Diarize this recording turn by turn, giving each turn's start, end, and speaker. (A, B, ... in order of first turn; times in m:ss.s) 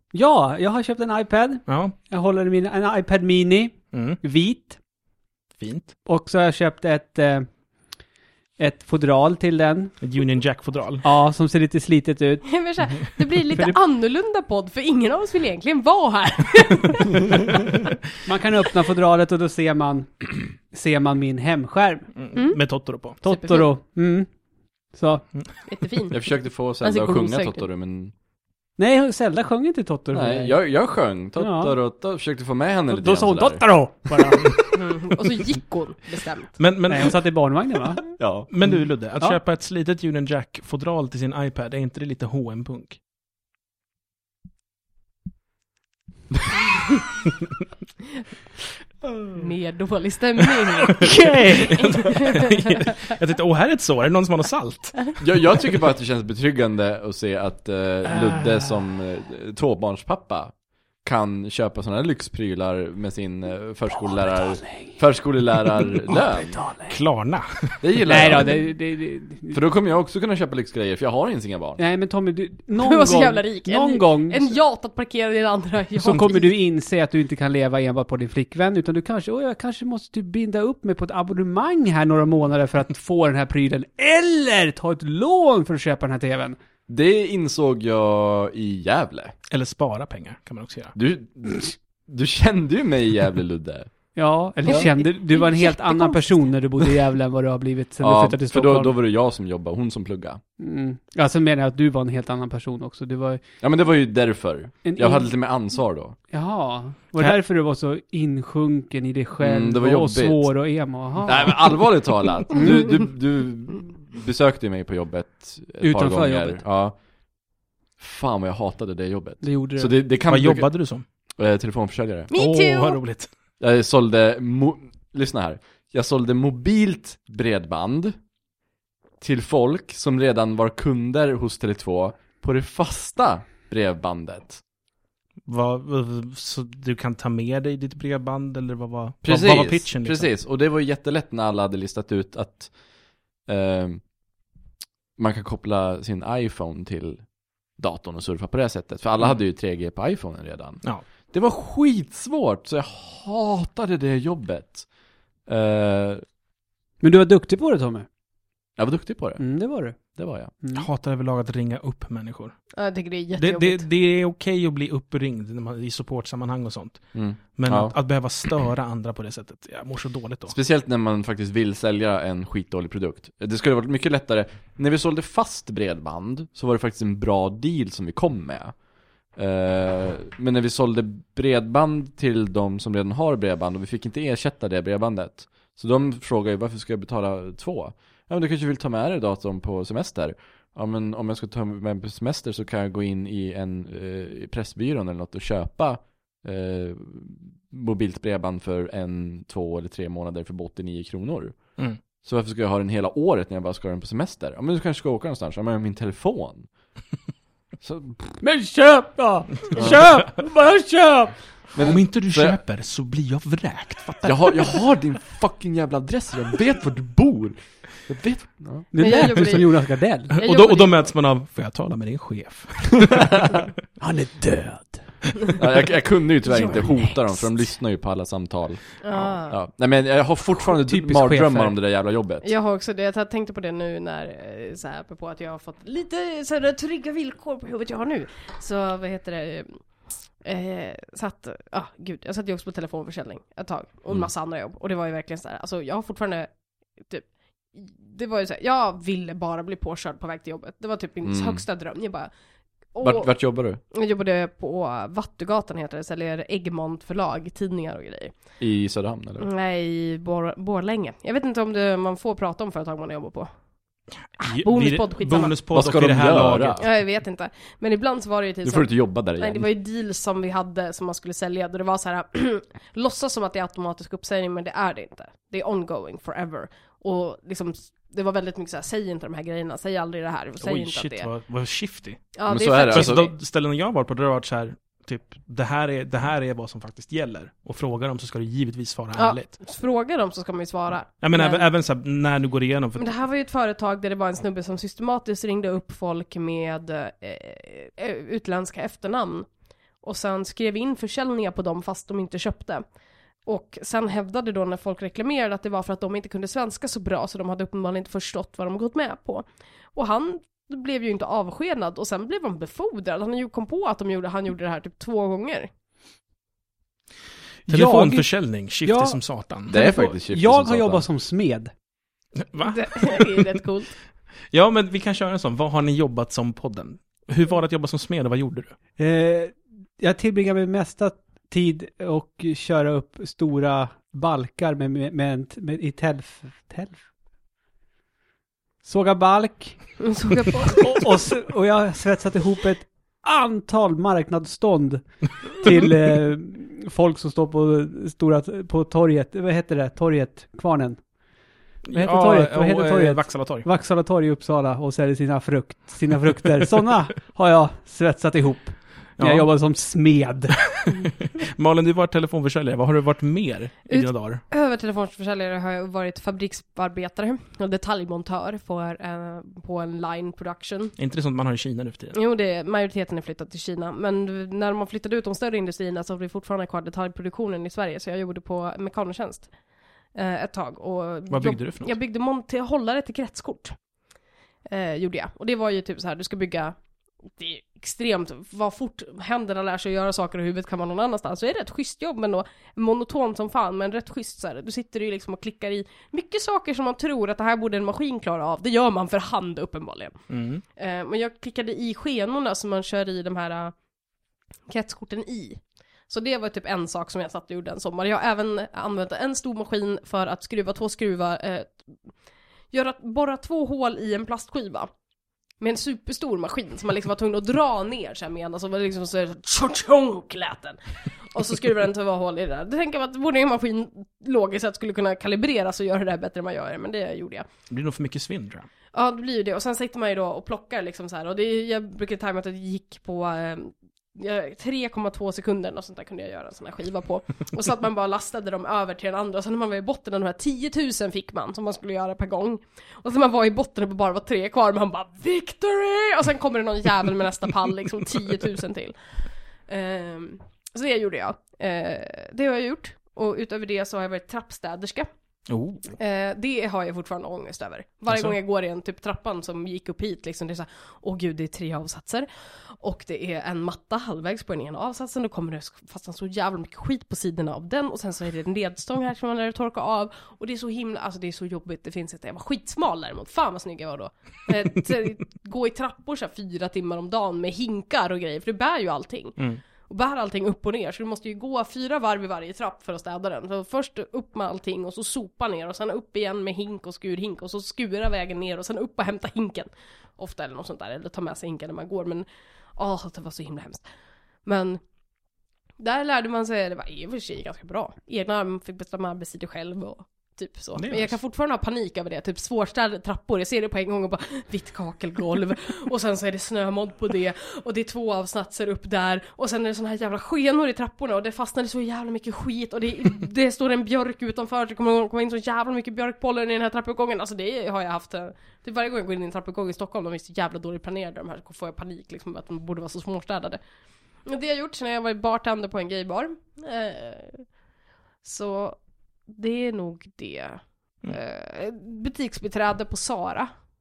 0:00.1-0:04.8 A
0:01.7-0:01.9 B
0:03.9-0:04.2 B
0:05.6-0:05.9 B
0:06.0-0:07.6 A
0:08.6-0:09.9 A
0:10.0-0:11.0 B
0:11.0-0:12.5 A
0:12.4-0:17.7 C
0:13.5-0:13.8 A
0:18.2-0:22.1 A
0:22.2-0:23.2 B
0:22.3-0:22.6 C
0:23.1-0:23.7 C
0:23.2-0:24.3 A
0:24.9-0:25.2 A
0:25.7-0:27.6 C
0:26.1-0:28.1 D
0:28.8-0:30.6 A
0:30.1-0:33.6 D
0:31.4-0:31.8 A
0:32.9-0:34.8 A
0:34.7-0:36.6 C
0:36.6-0:37.2 B
0:36.9-0:39.4 A
0:38.2-0:38.5 D
0:38.5-0:43.0 B
0:49.3-0:51.1 C
0:51.0-0:55.2 B
0:51.0-0:51.8 A
0:51.8-0:52.9 C
0:55.2-1:00.5 D
1:01.0-1:06.6 D
1:04.0-1:05.0 A
1:06.5-1:07.0 A
1:06.8-1:07.9 B
1:07.8-1:08.7 D
1:08.0-1:09.6 A
1:09.5-1:11.8 D
1:11.8-1:14.5 A
1:12.8-1:16.5 C
1:16.0-1:26.6 A
1:26.9-1:29.3 D
1:29.5-1:30.9 B
1:30.9-1:33.9 D
1:34.1-1:39.0 A
1:34.6-1:36.5 C
1:38.0-1:40.4 D
1:40.6-1:43.4 A
1:43.6-1:46.2 D
1:44.8-1:45.3 A
1:46.3-1:51.8 A
1:49.4-1:50.5 D
1:51.2-1:57.0 D
1:52.5-1:52.8 A
1:55.8-1:56.6 A
1:58.0-2:00.7 D
1:59.4-1:59.9 A
2:00.3-2:01.0 B
2:01.4-2:02.3 D
2:02.3-2:03.0 C
2:02.3-2:03.3 B
2:03.6-2:08.2 D
2:09.2-2:14.6 D
2:15.5-2:20.3 B
2:19.2-2:22.7 D
2:23.4-2:24.0 D
2:25.2-2:27.2 D
2:27.8-2:34.9 D
2:35.4-2:36.2 D
2:37.0-2:38.1 A
2:38.8-2:40.5 D
2:39.4-2:40.0 A
2:40.6-2:40.9 A
2:40.7-2:42.6 B
2:42.8-2:43.8 C
2:43.4-2:50.6 B
2:47.1-2:47.9 D
2:50.5-2:58.7 D
2:59.4-3:21.6 D
3:22.2-3:26.7 D
3:27.8-3:28.4 D
3:28.4-3:31.4 A
3:29.7-3:30.1 D
3:31.7-3:32.6 D
3:31.8-3:34.7 B
3:34.2-3:38.9 D
3:38.9-3:40.3 A
3:39.0-3:41.1 C
3:40.4-3:43.7 B
3:44.0-3:45.2 A
3:45.6-3:52.5 D
3:49.0-3:49.6 C
3:50.7-3:51.8 A
3:52.4-4:12.3 C
4:11.2-4:11.6 D
4:12.9-4:13.3 C
4:13.0-4:13.8 D
4:13.8-4:18.3 C
4:18.6-4:19.5 D
4:19.4-4:23.5 C
4:24.4-4:26.8 B
4:24.4-4:25.5 C
4:25.7-4:26.8 D
4:26.8-4:41.3 C
4:28.6-4:29.7 D
4:40.6-4:49.5 B
4:42.3-4:43.3 C
4:42.5-4:43.3 D
4:49.2-4:51.6 C
4:51.2-4:53.2 B
4:53.0-5:02.8 C
5:03.4-5:15.7 C
5:17.7-5:18.3 A
5:17.7-5:19.8 B
5:18.8-5:19.2 A
5:19.7-5:21.0 D
5:19.7-5:21.7 A
5:22.5-5:23.6 B
5:22.6-5:23.9 C
5:24.5-5:28.7 B
5:29.0-5:37.0 A
5:38.8-5:40.2 A
5:40.0-5:41.0 C
5:40.7-5:51.1 A
5:51.9-5:53.6 B
5:51.9-6:00.9 A
5:59.2-5:59.5 B
6:00.8-6:04.4 B
6:03.9-6:10.9 C
6:11.0-6:12.2 B
6:12.1-6:19.5 C
6:20.1-6:23.8 C
6:21.3-6:21.9 B
6:24.7-6:26.8 C
6:27.3-6:40.2 C
6:40.3-6:40.6 B
6:40.8-6:43.7 C
6:44.7-6:51.8 C
6:52.7-6:54.9 C
6:55.6-7:07.4 C
7:07.7-7:08.7 B
7:08.9-7:29.0 C
7:29.7-7:35.1 C
7:35.5-7:35.9 B
7:36.0-7:42.3 C
7:38.1-7:38.4 B
7:42.8-8:13.8 C
8:14.4-8:14.8 C
8:15.8-8:43.6 C
8:20.8-8:21.2 B
8:44.2-8:47.6 C
8:48.2-8:53.5 C